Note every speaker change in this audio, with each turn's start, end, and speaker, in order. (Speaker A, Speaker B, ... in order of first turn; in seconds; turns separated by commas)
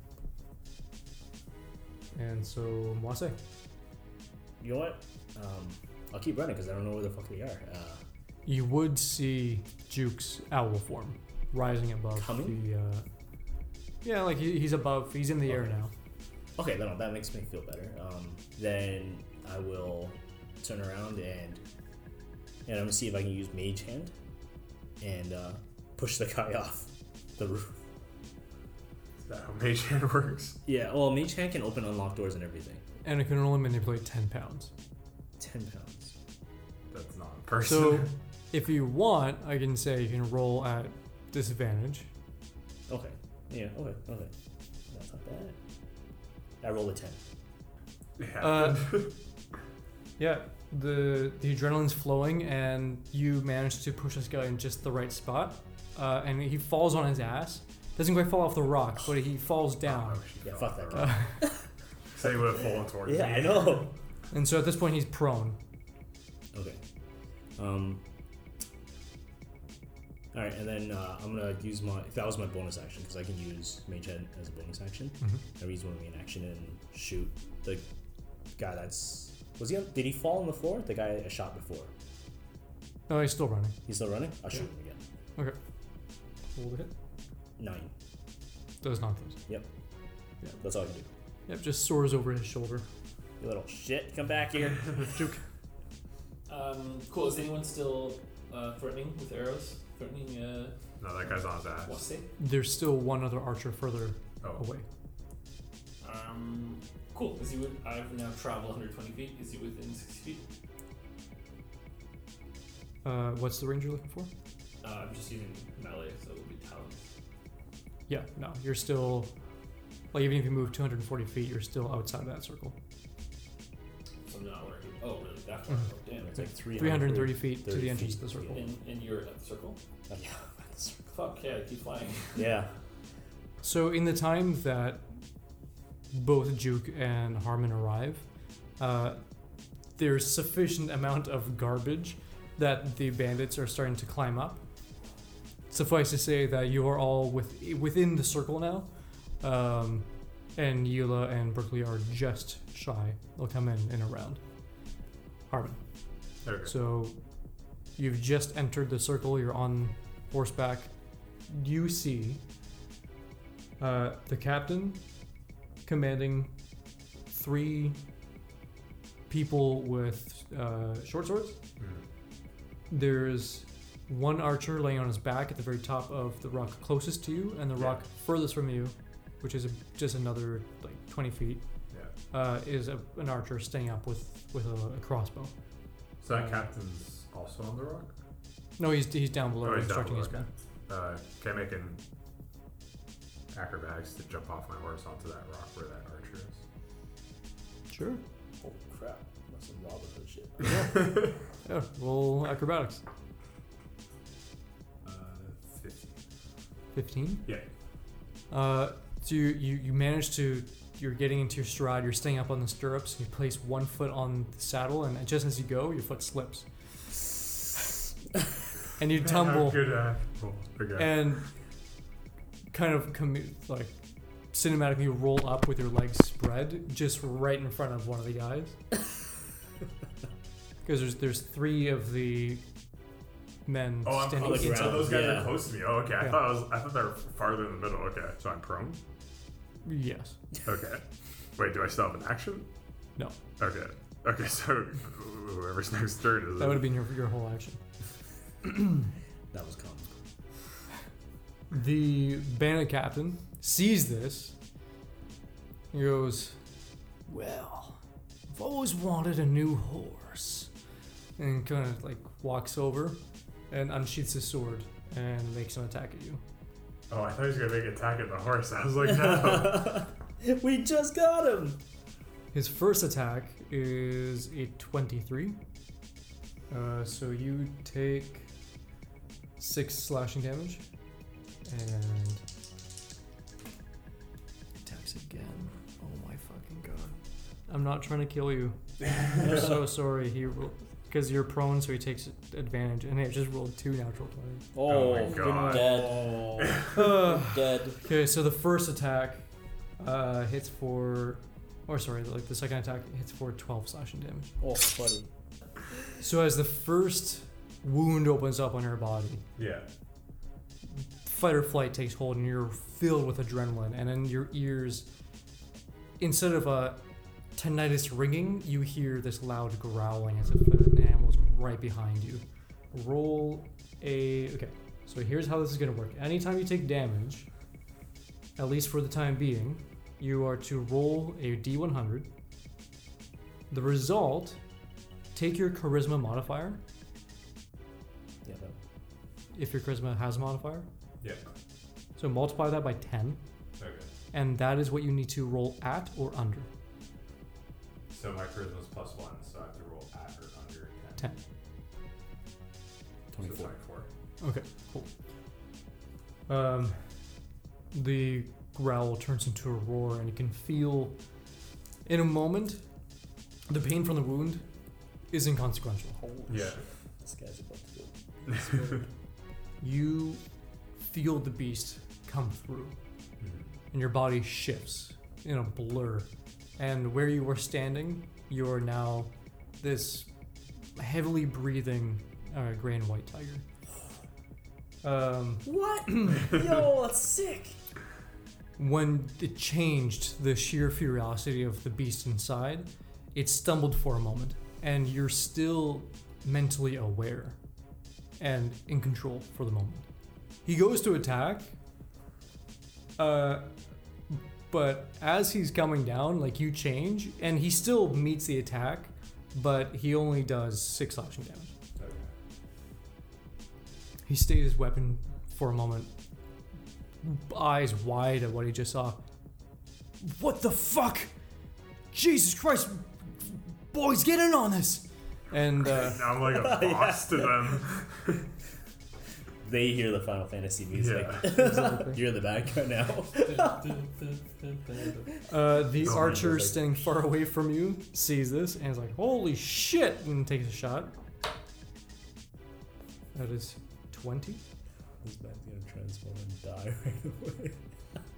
Speaker A: 2.1-3.4, Speaker B: 4.6-8.0, Speaker A: 8.4-13.1, Speaker B: 12.2-12.6, Speaker A: 14.0-15.9, Speaker B: 16.6-21.6, Speaker B: 22.6-24.1, Speaker B: 25.0-27.8, Speaker C: 29.2-30.6, Speaker B: 30.6-32.8, Speaker A: 33.0-34.7, Speaker B: 35.4-36.1, Speaker C: 36.9-38.1, Speaker A: 37.6-42.1, Speaker B: 42.9-44.3, Speaker B: 44.9-45.6, Speaker B: 46.6-47.2, Speaker C: 48.2-49.1, Speaker A: 48.4-49.0, Speaker A: 50.2-60.2, Speaker C: 59.8-61.2, Speaker B: 60.4-61.5, Speaker A: 60.9-61.4, Speaker C: 62.1-63.8, Speaker B: 63.0-63.9, Speaker A: 64.3-65.6, Speaker B: 66.5-66.8, Speaker B: 67.6-68.0, Speaker B: 70.3-77.8, Speaker B: 78.5-81.9, Speaker A: 83.1-83.8, Speaker B: 83.8-85.0, Speaker A: 86.5-86.9, Speaker B: 87.6-87.9, Speaker A: 88.8-89.4, Speaker B: 90.6-91.1, Speaker A: 91.5-92.8, Speaker B: 93.4-95.0, Speaker A: 95.0-95.4, Speaker D: 96.5-100.8, Speaker C: 101.0-102.0, Speaker D: 101.8-102.3, Speaker A: 102.4-104.8, Speaker D: 106.0-110.5, Speaker A: 113.0-114.3, Speaker D: 114.8-117.1, Speaker A: 118.1-119.3, Speaker A: 120.1-122.8, Speaker D: 124.2-126.3, Speaker B: 126.2-128.7, Speaker A: 126.4-128.6, Speaker D: 128.5-129.8, Speaker B: 130.1-131.0, Speaker D: 131.1-132.5, Speaker B: 132.3-132.7, Speaker A: 133.6-135.1, Speaker A: 136.1-138.2, Speaker A: 138.8-139.2, Speaker A: 139.9-144.6, Speaker A: 145.7-148.9, Speaker A: 149.4-154.4, Speaker A: 155.5-155.8, Speaker C: 156.4-156.7, Speaker A: 156.6-157.2, Speaker A: 157.9-160.9, Speaker A: 161.5-162.4, Speaker A: 163.8-165.0, Speaker A: 165.8-166.5, Speaker A: 167.3-168.0, Speaker A: 169.3-171.6, Speaker C: 171.8-172.0, Speaker A: 172.9-181.6, Speaker A: 182.3-185.5, Speaker C: 186.2-188.1, Speaker A: 188.8-190.5, Speaker C: 189.6-192.0, Speaker C: 193.5-196.6, Speaker A: 197.9-198.2, Speaker B: 198.6-200.8, Speaker C: 200.6-201.4, Speaker A: 200.7-200.9, Speaker A: 201.6-203.0, Speaker C: 205.0-206.2, Speaker A: 206.9-207.5, Speaker A: 208.5-216.7, Speaker A: 219.0-219.9, Speaker C: 219.2-221.2, Speaker A: 220.9-221.5, Speaker A: 222.7-224.0, Speaker A: 224.5-228.8, Speaker A: 230.8-232.6, Speaker A: 233.7-235.2, Speaker C: 234.0-239.0, Speaker B: 234.4-235.7, Speaker A: 239.8-240.4, Speaker C: 240.6-241.0, Speaker C: 241.6-242.7, Speaker C: 243.6-246.9, Speaker A: 246.6-247.8, Speaker B: 249.5-250.1, Speaker A: 251.7-254.5, Speaker A: 255.9-256.6, Speaker A: 257.3-260.7, Speaker A: 261.4-266.4, Speaker C: 267.1-270.1, Speaker B: 269.0-271.8, Speaker A: 272.5-275.6, Speaker A: 276.7-278.5, Speaker A: 279.6-280.8, Speaker A: 281.7-282.4, Speaker A: 284.8-287.1, Speaker A: 287.7-294.7, Speaker B: 289.4-289.7, Speaker B: 294.7-298.0, Speaker C: 294.9-296.9, Speaker A: 295.5-295.9, Speaker A: 296.9-299.4, Speaker A: 300.0-304.5, Speaker B: 304.6-305.3, Speaker A: 306.2-309.4, Speaker C: 309.6-309.9, Speaker A: 311.2-315.1, Speaker A: 316.2-317.0, Speaker A: 317.6-327.5, Speaker A: 328.6-332.3, Speaker A: 333.7-334.6, Speaker A: 335.3-336.8, Speaker B: 338.4-338.8, Speaker A: 339.5-340.9, Speaker C: 341.2-341.4, Speaker A: 342.2-343.4, Speaker C: 343.8-344.1, Speaker A: 344.3-346.7, Speaker C: 348.1-351.3, Speaker B: 353.3-353.7, Speaker C: 353.4-354.1, Speaker A: 354.4-355.1, Speaker A: 356.5-357.0, Speaker A: 357.9-361.2, Speaker A: 362.0-362.8, Speaker A: 363.7-364.6, Speaker A: 365.3-366.2, Speaker B: 366.2-369.0, Speaker C: 366.5-366.8, Speaker C: 368.5-369.0, Speaker A: 369.8-370.4, Speaker A: 371.1-372.9, Speaker C: 373.4-373.7, Speaker A: 373.9-380.3, Speaker A: 380.9-383.6, Speaker A: 385.0-386.5, Speaker B: 385.6-387.8, Speaker A: 388.8-397.6, Speaker A: 398.4-400.1, Speaker A: 400.6-401.7, Speaker A: 403.2-403.7, Speaker A: 404.3-411.7, Speaker C: 412.0-412.3, Speaker A: 414.3-416.1, Speaker A: 417.2-419.2, Speaker A: 420.2-421.3, Speaker A: 422.1-426.2, Speaker C: 425.9-428.4, Speaker B: 426.4-427.8, Speaker B: 429.6-433.9, Speaker C: 430.9-431.5, Speaker A: 431.4-432.2, Speaker D: 433.4-435.3, Speaker A: 435.5-441.1, Speaker B: 436.0-436.8, Speaker C: 436.0-436.5, Speaker A: 443.3-444.6, Speaker B: 445.2-447.8